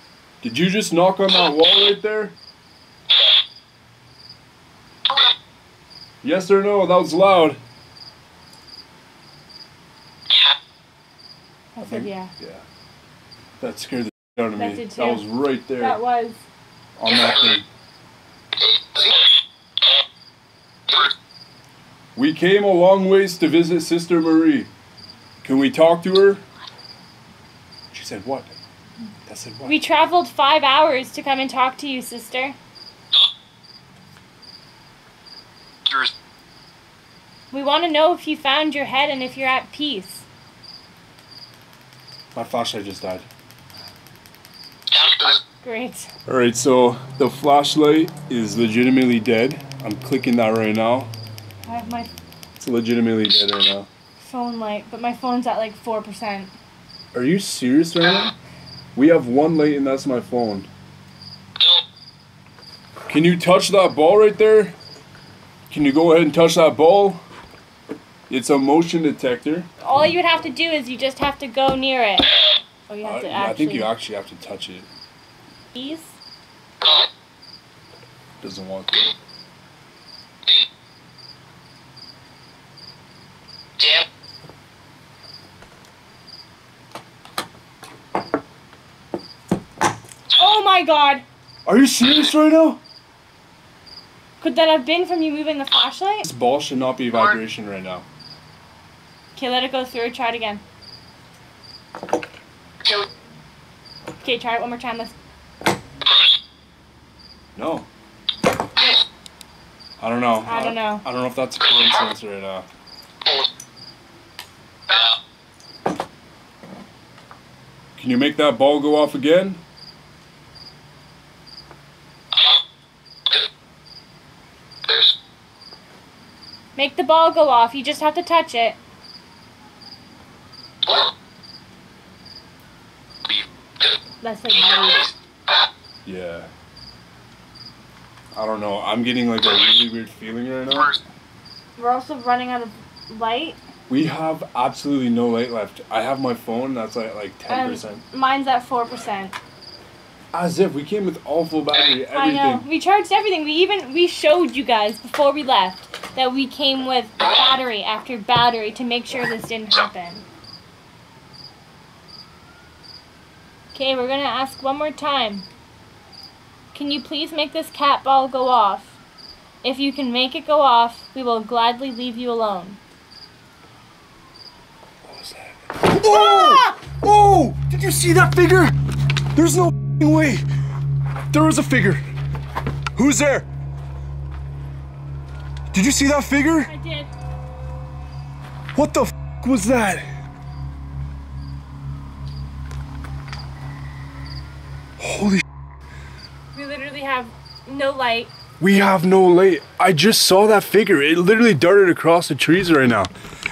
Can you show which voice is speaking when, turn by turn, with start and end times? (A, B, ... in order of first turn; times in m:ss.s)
0:00.4-0:02.4 A
0:06.2-0:07.6 A
0:11.8-0:12.3 B
0:11.8-0:12.6 A
0:13.6-0:16.0 A
0:14.6-0:16.5 B
0:17.0-0:17.7 A
0:18.6-0:19.2 C
0:22.2-0:24.7 A
0:25.4-0:26.4 A
0:27.9-0:28.5 A
0:29.3-0:29.8 A
0:29.6-0:32.6 B
0:35.9-0:36.1 C
0:37.5-0:40.3 B
0:42.3-0:43.3 A
0:44.9-0:45.4 C
0:45.6-0:46.1 B
0:46.3-0:51.1 A
0:51.6-0:52.1 B
0:52.6-0:53.9 A
0:54.2-0:56.5 B
0:57.1-0:58.3 A
0:59.0-1:00.7 A
1:03.1-1:04.8 A
1:05.7-1:07.2 A
1:08.3-1:09.7 A
1:09.8-1:12.3 B
1:12.9-1:13.9 B
1:13.0-1:14.9 A
1:15.8-1:16.2 B
1:16.8-1:17.1 C
1:18.4-1:19.1 A
1:23.8-1:24.0 C
1:30.3-1:31.2 B
1:31.7-1:32.8 A
1:34.4-1:36.2 B
1:36.2-1:38.1 A
1:39.4-1:40.6 B
1:44.2-1:45.1 B
1:47.6-1:47.9 A
1:50.0-1:52.7 A
1:50.4-1:51.0 B
1:58.0-1:59.6 A
2:04.9-2:05.1 C
2:06.8-2:08.8 B
2:10.8-2:11.1 C
2:13.2-2:14.0 C
2:14.2-2:15.1 B
2:16.0-2:16.5 A
2:18.4-2:21.0 A
2:21.8-2:23.6 B
2:23.9-2:28.0 A
2:27.5-2:29.4 B
2:30.3-2:32.7 A
2:32.1-2:40.2 B
2:43.7-2:45.5 B
2:46.7-2:49.0 B
2:49.6-2:52.8 B
2:55.0-2:58.8 A
2:56.1-2:56.8 B
2:59.4-3:00.5 A
3:01.3-3:02.0 A
3:03.0-3:03.5 A
3:05.7-3:06.7 A
3:06.7-3:07.1 B
3:08.8-3:10.1 A
3:15.0-3:15.4 A
3:16.5-3:18.3 B
3:18.6-3:23.1 A